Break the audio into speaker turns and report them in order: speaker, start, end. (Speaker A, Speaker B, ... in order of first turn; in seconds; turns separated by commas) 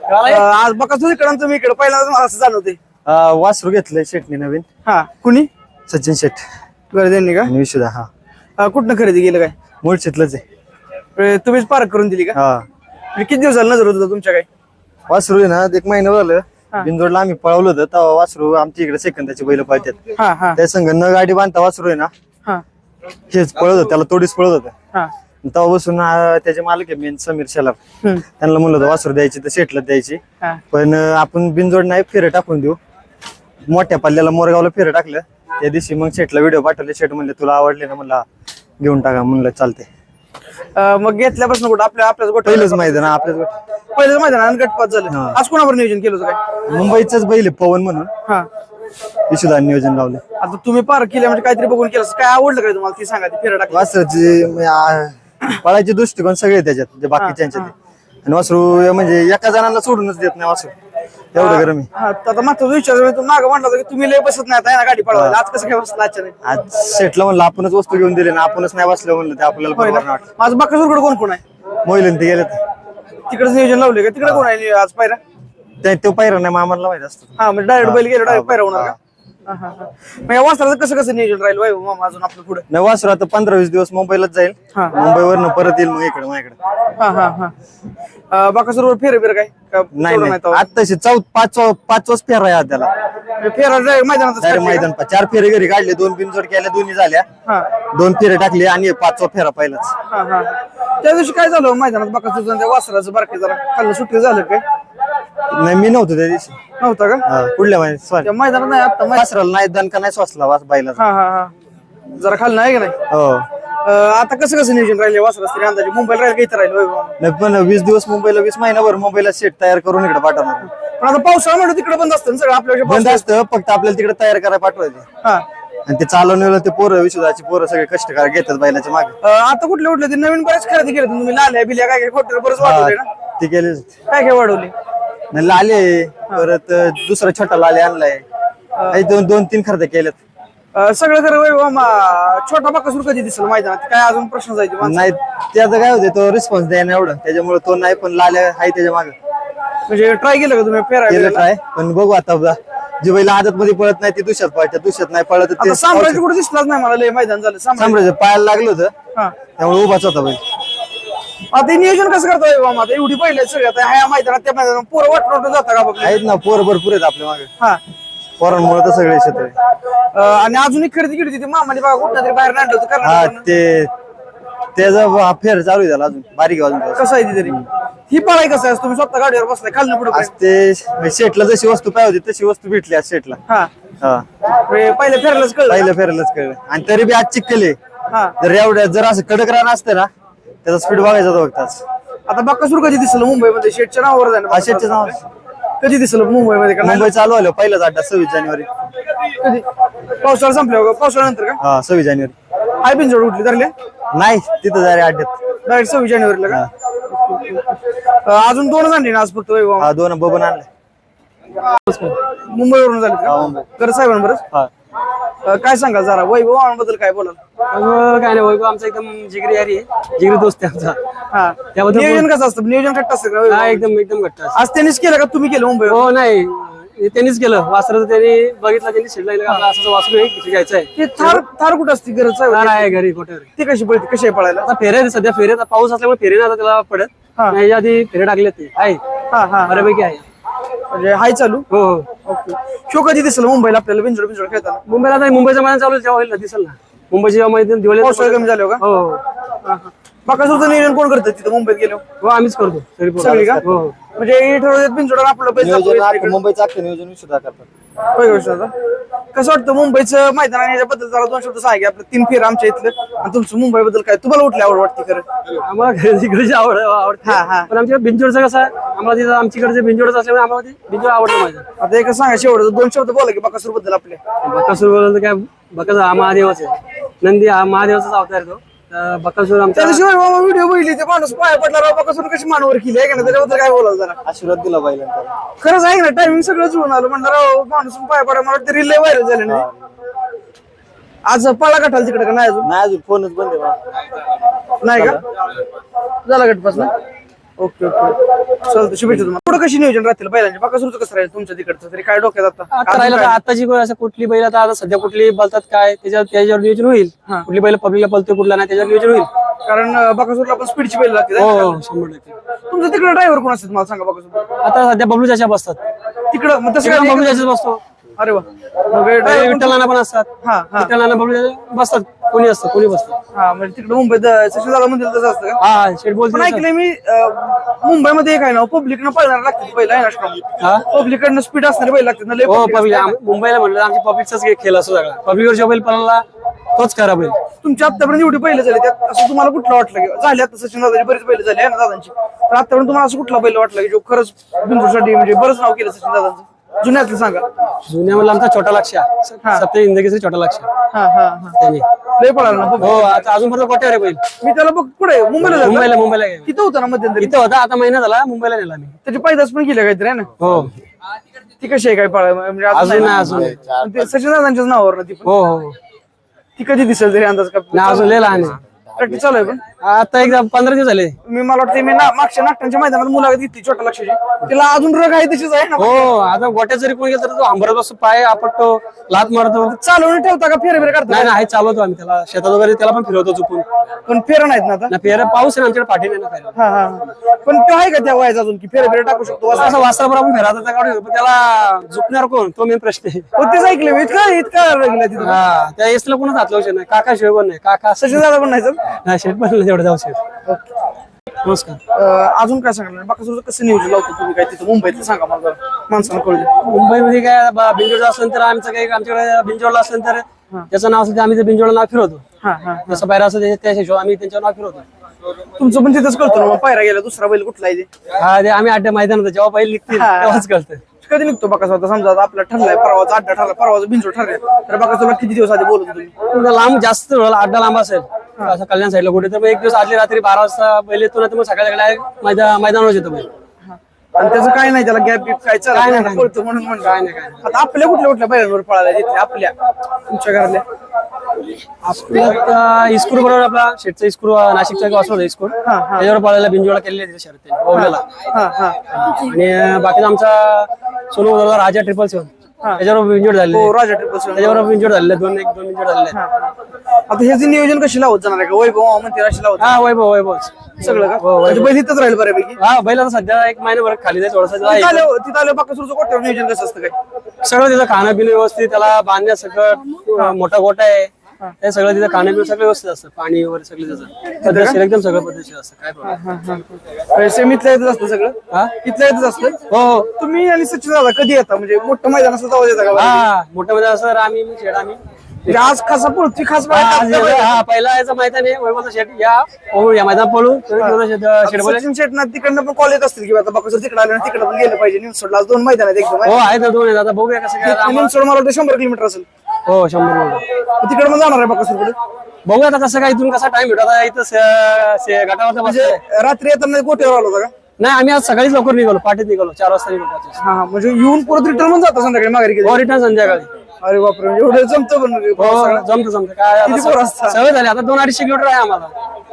Speaker A: 0.1-0.5, Speaker B: 0.2-2.8, Speaker C: 3.1-4.7, Speaker B: 4.8-5.5, Speaker C: 5.9-6.4, Speaker B: 6.9-7.5, Speaker C: 7.4-8.1, Speaker B: 8.6-9.5, Speaker C: 9.8-10.4, Speaker B: 11.2-12.4, Speaker C: 12.3-12.7, Speaker B: 13.1-14.5, Speaker C: 15.1-20.0, Speaker B: 20.2-20.6, Speaker C: 20.6-22.1, Speaker C: 23.3-24.7, Speaker C: 25.4-27.8, Speaker C: 28.3-30.2, Speaker C: 30.7-32.8, Speaker C: 33.7-38.2, Speaker C: 38.8-39.9, Speaker B: 40.8-43.1, Speaker C: 42.5-43.5, Speaker B: 43.9-46.4, Speaker C: 45.1-45.4, Speaker C: 46.7-48.1, Speaker C: 49.3-50.2, Speaker B: 50.4-53.9, Speaker C: 53.7-57.7, Speaker B: 57.2-57.7, Speaker C: 58.2-60.7, Speaker C: 61.3-61.9, Speaker B: 61.3-66.4, Speaker C: 65.1-65.4, Speaker C: 66.4-70.3, Speaker B: 69.7-71.4, Speaker C: 71.8-72.6, Speaker B: 73.3-75.2, Speaker C: 75.8-79.0, Speaker B: 77.4-82.7, Speaker C: 82.7-86.6, Speaker B: 87.0-87.5, Speaker B: 88.3-90.6, Speaker C: 89.9-92.9, Speaker B: 93.4-94.9, Speaker C: 94.4-97.3, Speaker C: 97.9-99.9, Speaker B: 100.1-104.6, Speaker C: 105.5-106.6, Speaker B: 106.8-107.2, Speaker C: 107.3-108.3, Speaker B: 108.2-109.3, Speaker C: 109.1-111.0, Speaker B: 111.0-111.5, Speaker B: 112.2-113.0, Speaker C: 113.1-113.5, Speaker B: 113.8-117.2, Speaker C: 117.2-120.7, Speaker B: 121.0-123.3, Speaker C: 122.8-125.0, Speaker C: 125.9-129.1, Speaker B: 129.2-133.1, Speaker C: 132.6-133.9, Speaker B: 134.1-134.7, Speaker C: 135.3-138.2, Speaker B: 138.8-139.0, Speaker C: 138.9-140.2, Speaker B: 140.7-145.1, Speaker C: 144.8-149.2, Speaker B: 149.9-151.5, Speaker C: 151.1-156.2, Speaker B: 155.6-158.0, Speaker C: 157.8-158.9, Speaker C: 159.6-160.4, Speaker B: 161.5-166.2, Speaker C: 166.0-167.5, Speaker C: 168.4-169.5, Speaker B: 170.1-173.4, Speaker C: 173.0-173.9, Speaker C: 174.8-177.6, Speaker B: 176.9-180.3, Speaker C: 180.1-183.4, Speaker B: 184.7-185.9, Speaker C: 185.7-187.8, Speaker B: 188.1-188.4, Speaker C: 188.4-190.1, Speaker C: 190.6-191.8, Speaker B: 192.3-195.2, Speaker C: 194.5-195.2, Speaker B: 195.8-197.1, Speaker C: 196.8-198.7, Speaker B: 199.4-199.7, Speaker B: 200.2-201.6, Speaker C: 201.6-202.3, Speaker B: 202.8-203.7, Speaker C: 204.1-205.4, Speaker B: 205.7-209.9, Speaker C: 209.8-210.7, Speaker A: 211.9-212.2, Speaker B: 212.3-214.4, Speaker C: 213.3-213.7, Speaker B: 215.4-217.4, Speaker A: 217.7-221.0, Speaker B: 221.3-223.9, Speaker A: 221.8-222.3, Speaker A: 223.5-224.6, Speaker B: 224.5-226.0, Speaker A: 225.9-231.4, Speaker B: 230.9-233.0, Speaker A: 232.5-233.5, Speaker B: 233.6-234.7, Speaker A: 234.6-239.0, Speaker B: 239.3-239.9, Speaker A: 239.6-240.2, Speaker B: 240.9-241.7, Speaker A: 241.7-242.1, Speaker B: 242.2-244.8, Speaker A: 244.9-249.2, Speaker B: 247.9-248.8, Speaker B: 249.6-252.0, Speaker A: 252.2-253.9, Speaker B: 253.2-253.6, Speaker B: 254.2-256.4, Speaker C: 255.6-257.7, Speaker B: 258.1-258.7, Speaker B: 259.3-265.3, Speaker A: 265.6-271.6, Speaker B: 267.2-267.7, Speaker B: 271.8-274.2, Speaker A: 274.4-280.0, Speaker B: 279.8-284.2, Speaker C: 284.2-285.3, Speaker B: 285.6-289.6, Speaker C: 289.5-289.9, Speaker B: 291.2-292.7, Speaker C: 292.6-293.8, Speaker B: 294.8-295.2, Speaker B: 296.2-296.9, Speaker B: 297.6-303.4, Speaker A: 302.7-309.3, Speaker B: 309.7-311.8, Speaker A: 311.4-312.4, Speaker B: 312.7-314.5, Speaker A: 314.6-315.8, Speaker B: 316.3-317.5, Speaker A: 316.8-317.8, Speaker B: 318.2-319.8, Speaker A: 319.2-323.1, Speaker B: 320.4-320.9, Speaker B: 323.3-325.6, Speaker A: 325.6-326.6, Speaker B: 326.3-333.2, Speaker A: 332.5-336.2, Speaker A: 336.8-337.4, Speaker B: 337.6-347.5, Speaker A: 347.9-350.7, Speaker B: 350.9-351.6, Speaker A: 351.6-351.9, Speaker B: 352.2-353.2, Speaker A: 352.8-354.2, Speaker B: 354.4-357.4, Speaker A: 355.4-356.5, Speaker A: 357.2-358.9, Speaker B: 359.1-360.3, Speaker A: 360.4-360.8, Speaker B: 361.6-365.3, Speaker A: 362.7-363.6, Speaker A: 365.2-365.8, Speaker B: 366.6-369.6, Speaker A: 367.7-368.6, Speaker A: 369.8-371.2, Speaker B: 371.2-376.1, Speaker A: 375.8-379.8, Speaker B: 379.8-381.4, Speaker A: 381.1-383.7, Speaker B: 384.1-384.9, Speaker A: 384.9-386.5, Speaker B: 386.6-389.9, Speaker A: 389.6-393.3, Speaker B: 393.4-395.4, Speaker A: 395.2-398.2, Speaker B: 398.0-398.8, Speaker A: 398.9-400.2, Speaker A: 401.4-401.8, Speaker B: 401.9-406.5, Speaker A: 406.6-412.2, Speaker B: 412.4-413.0, Speaker A: 412.9-414.9, Speaker B: 415.6-417.9, Speaker A: 418.2-420.8, Speaker B: 419.9-420.5, Speaker B: 421.0-426.1, Speaker A: 426.3-433.3, Speaker B: 433.7-439.6, Speaker A: 435.7-437.4, Speaker B: 440.1-440.6, Speaker A: 441.8-448.0, Speaker B: 445.6-446.1, Speaker B: 447.7-448.8, Speaker A: 448.9-453.7, Speaker B: 453.5-454.7, Speaker A: 454.3-456.2, Speaker B: 456.1-456.5, Speaker B: 457.1-459.8, Speaker A: 459.6-461.7, Speaker B: 460.8-462.6, Speaker A: 462.6-465.1, Speaker B: 464.6-466.9, Speaker A: 467.4-476.2, Speaker B: 474.4-474.8, Speaker B: 476.0-479.6, Speaker A: 479.7-480.1, Speaker B: 480.2-483.3, Speaker A: 482.9-485.8, Speaker B: 485.5-487.6, Speaker A: 486.7-491.9, Speaker B: 490.8-496.4, Speaker A: 496.2-498.1, Speaker B: 497.6-499.3, Speaker A: 499.7-500.4, Speaker B: 500.8-502.0, Speaker A: 502.4-506.0, Speaker B: 505.6-507.5, Speaker A: 507.8-510.4, Speaker B: 510.4-512.9, Speaker A: 512.6-513.5, Speaker B: 513.8-515.9, Speaker A: 515.4-518.9, Speaker B: 516.6-517.4